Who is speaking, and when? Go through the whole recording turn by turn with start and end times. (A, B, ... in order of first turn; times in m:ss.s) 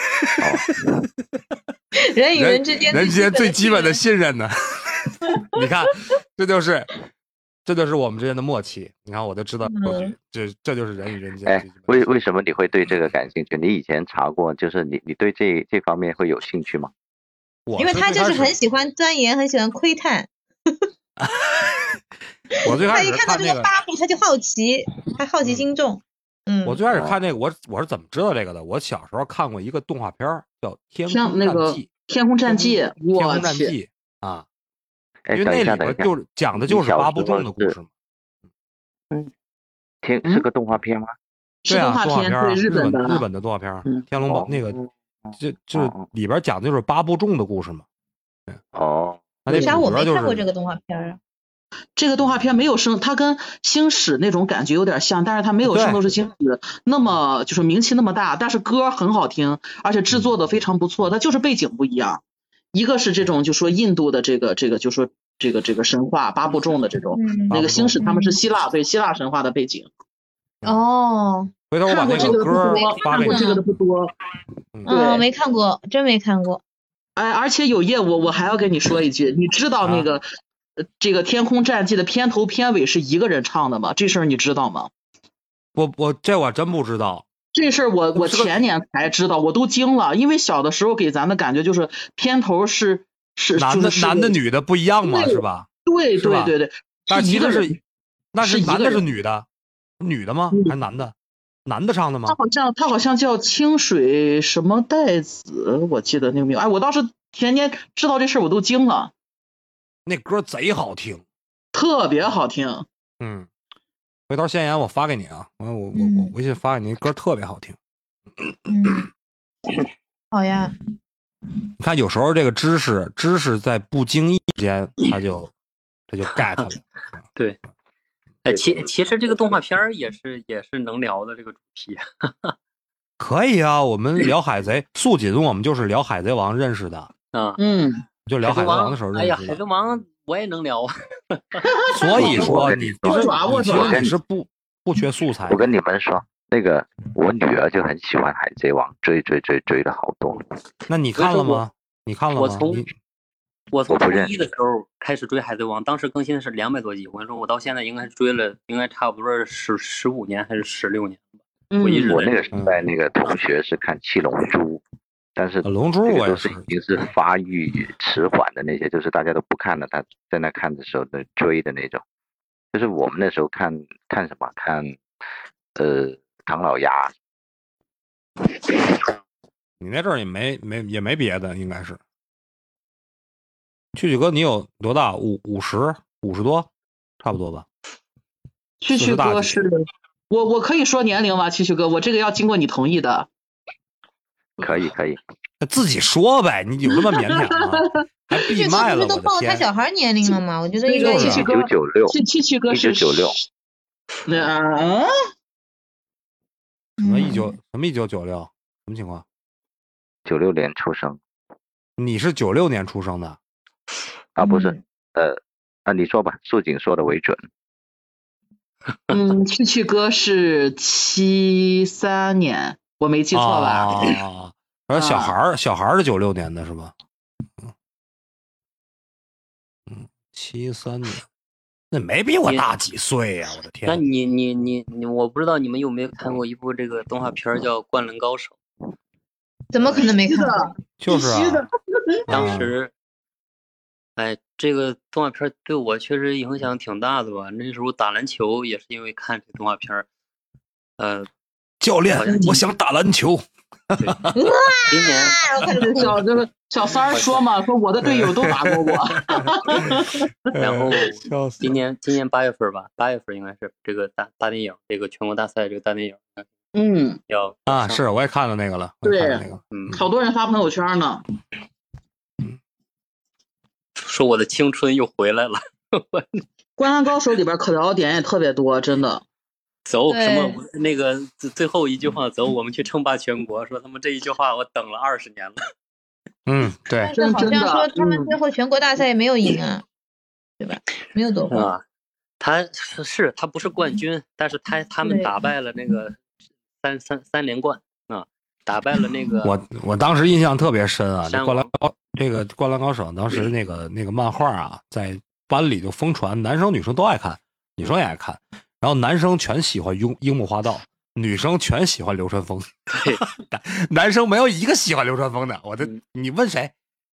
0:00.4-0:00.8 A
0:02.0-0:04.0 B
0:02.3-0:04.5 C
0:05.5-0:06.9 C
0:07.6-0:12.0 C
0:09.6-0:10.1 B
0:11.4-0:16.9 A
0:17.7-0:18.6 C
0:17.8-0:20.3 B
0:21.2-0:22.0 C
0:22.5-0:26.8 B
0:22.6-0:23.7 C
0:26.6-0:31.9 C
0:31.0-0:33.7 D
0:33.1-0:34.4 C
0:35.2-0:37.7 A
0:35.3-0:37.9 C
0:40.0-0:41.1 A
0:41.6-0:43.2 D
0:41.7-0:44.8 C
0:44.2-0:44.5 A
0:45.2-0:46.1 A
0:45.4-0:47.8 C
0:48.7-0:49.5 A
0:49.4-0:50.4 C
0:49.5-0:51.2 B
0:52.0-1:02.2 D
0:55.7-0:56.0 C
1:02.7-1:09.9 D
1:07.1-1:08.4 B
1:07.5-1:08.0 C
1:10.6-1:11.5 B
1:11.7-1:13.6 C
1:11.8-1:14.1 D
1:12.1-1:13.6 B
1:14.8-1:16.6 B
1:14.9-1:15.2 D
1:17.2-1:20.2 D
1:21.0-1:24.9 D
1:25.8-1:27.2 C
1:27.5-1:34.4 D
1:28.1-1:28.5 C
1:33.6-1:36.5 C
1:35.0-1:37.8 D
1:37.1-1:37.8 C
1:38.3-1:39.4 C
1:38.4-1:39.0 D
1:40.0-1:41.1 C
1:41.6-1:42.4 C
1:42.3-1:49.1 D
1:50.0-1:51.2 C
1:51.7-1:52.8 D
1:53.2-1:53.5 C
1:54.3-1:57.8 C
1:55.9-1:56.3 B
1:58.7-1:59.1 B
2:00.3-2:00.7 B
2:01.8-2:05.5 C
2:06.1-2:07.2 C
2:08.4-2:12.5 E
2:13.2-2:17.1 C
2:17.3-2:17.6 E
2:17.6-2:18.0 D
2:18.2-2:19.6 C
2:18.4-2:21.6 E
2:21.6-2:24.1 D
2:21.9-2:25.6 C
2:22.1-2:24.1 A
2:25.4-2:30.4 A
2:30.9-2:32.9 C
2:31.2-2:31.6 E
2:32.3-2:32.8 E
2:33.7-2:41.3 E
2:33.9-2:34.4 A
2:41.7-2:42.2 D
2:41.8-2:42.4 E
2:41.9-2:44.8 A
2:42.5-2:42.8 C
2:45.4-2:52.0 A
2:45.6-2:46.6 C
2:52.7-2:55.0 A
2:55.8-2:57.1 A
2:59.8-3:02.0 C
3:03.9-3:06.7 C
3:07.2-3:07.6 C
3:08.8-3:13.3 D
3:08.9-3:09.6 C
3:14.6-3:15.2 A
3:14.6-3:14.8 D
3:15.6-3:19.6 C
3:17.1-3:17.9 D
3:18.4-3:21.4 B
3:20.8-3:23.4 D
3:21.0-3:21.5 C
3:21.3-3:22.2 A
3:22.7-3:23.4 A
3:24.2-3:25.1 D
3:27.0-3:27.6 B
3:27.0-3:29.2 C
3:30.2-3:31.2 A
3:32.0-3:33.4 C
3:34.4-3:37.4 A
3:34.4-3:34.8 B
3:39.1-3:44.1 D
3:43.3-3:46.9 C
3:44.9-3:45.3 D
3:49.9-3:51.2 C
3:51.9-3:54.0 C
3:52.4-3:52.7 E
3:53.8-3:58.6 E
3:59.7-4:00.7 B
4:00.0-4:02.5 D
4:01.0-4:01.7 C
4:02.3-4:02.9 E
4:02.3-4:02.7 C
4:04.2-4:10.1 E
4:11.0-4:11.3 E
4:11.8-4:14.2 C
4:12.1-4:12.6 E
4:12.2-4:12.6 D
4:14.0-4:14.2 E
4:14.3-4:16.2 B
4:14.9-4:15.4 E
4:15.8-4:20.5 D
4:17.1-4:17.4 E
4:18.0-4:19.9 C
4:20.5-4:21.8 C
4:20.6-4:26.5 E
4:26.7-4:27.2 D
4:27.3-4:28.0 E
4:27.7-4:30.0 C
4:29.0-4:31.2 D
4:29.7-4:30.0 E
4:34.0-4:36.4 E
4:36.8-4:39.2 D
4:39.8-4:45.6 E
4:40.1-4:40.6 B
4:46.5-4:47.1 C
4:47.0-4:49.8 B
4:47.1-4:48.3 D
4:50.6-4:51.7 B
4:51.5-4:51.8 E
4:52.4-4:56.2 E
4:55.0-4:55.3 B
4:56.8-4:59.5 E
4:59.4-5:16.7 C
5:01.2-5:01.7 E
5:12.9-5:13.2 E